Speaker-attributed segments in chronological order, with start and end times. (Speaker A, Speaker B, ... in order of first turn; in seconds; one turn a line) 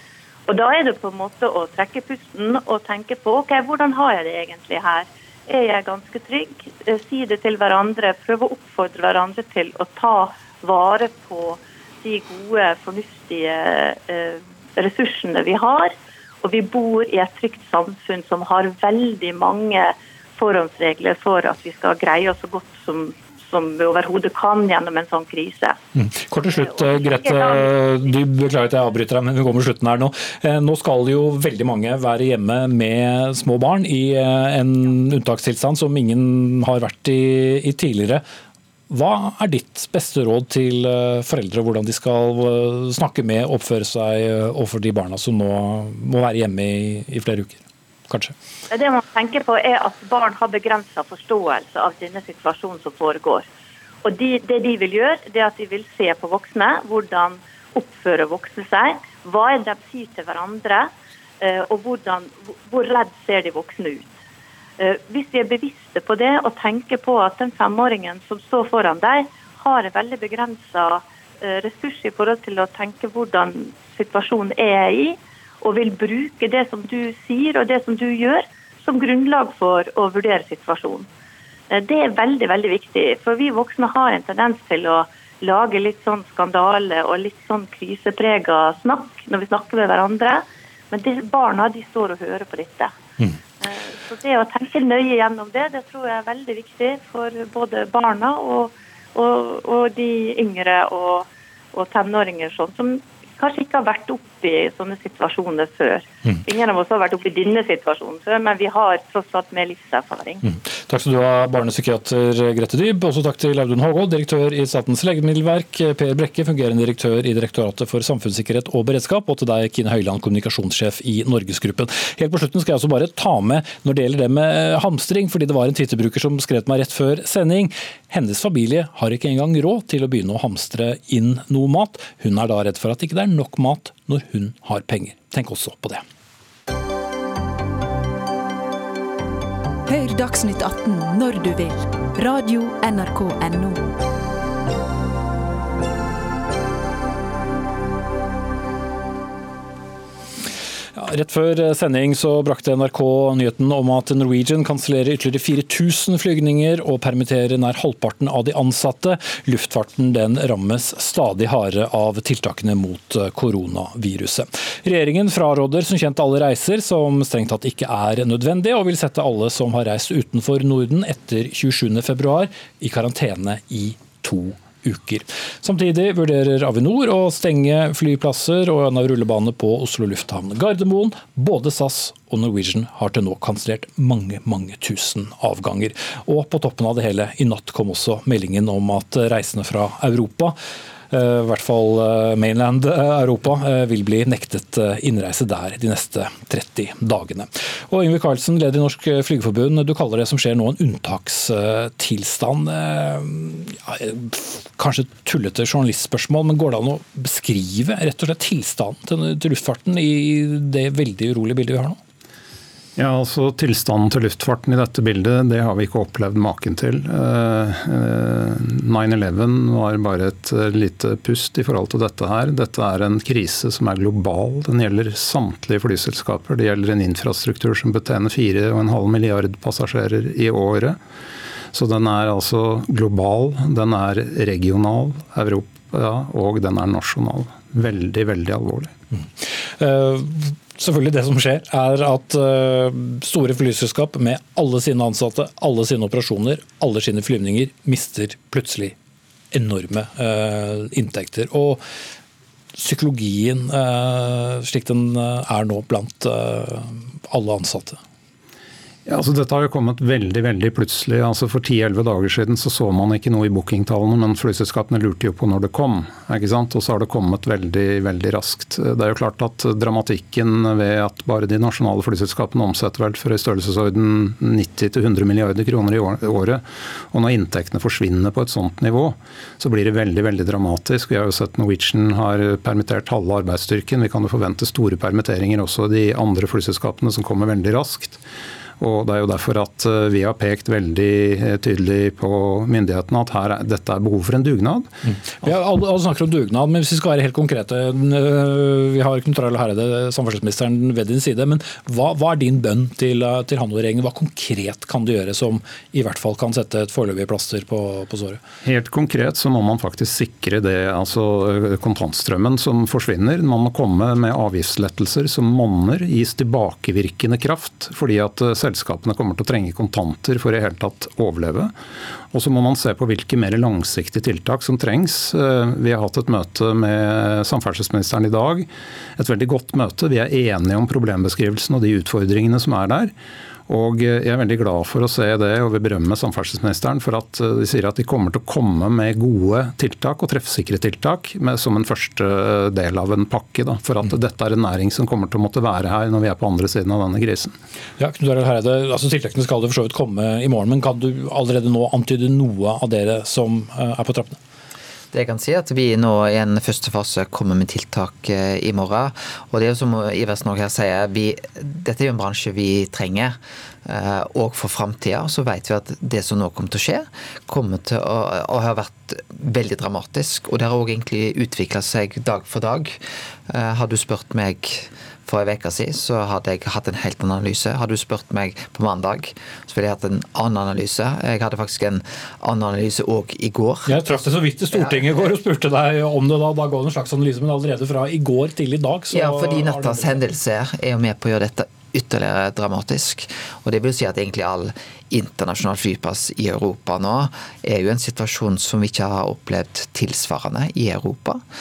Speaker A: 0.5-25.8
Speaker B: 25.9-38.2
Speaker A: 26.5-27.7
Speaker B: 38.9-48.3
Speaker A: 48.7-53.5
Speaker A: 54.0-64.2
Speaker A: 64.8-81.1
Speaker A: 81.7-92.9
Speaker A: 93.6-110.4
Speaker B: 110.4-136.0
Speaker C: 139.9-143.8
Speaker B: 150.9-190.6
Speaker B: 191.1-212.0
Speaker D: 212.9-231.0
Speaker D: 231.7-238.9
Speaker B: 239.1-248.9
Speaker B: 249.5-251.8
Speaker B: 252.8-258.0
Speaker D: 259.1-288.2
Speaker D: 288.8-294.9
Speaker B: 295.1-308.4
Speaker D: 308.6-321.7
Speaker D: 322.3-333.1
Speaker D: 333.7-347.6
Speaker B: 348.0-354.4
Speaker E: 355.1-373.0
Speaker E: 373.5-385.3
Speaker B: 383.9-390.2
Speaker E: 389.1-401.4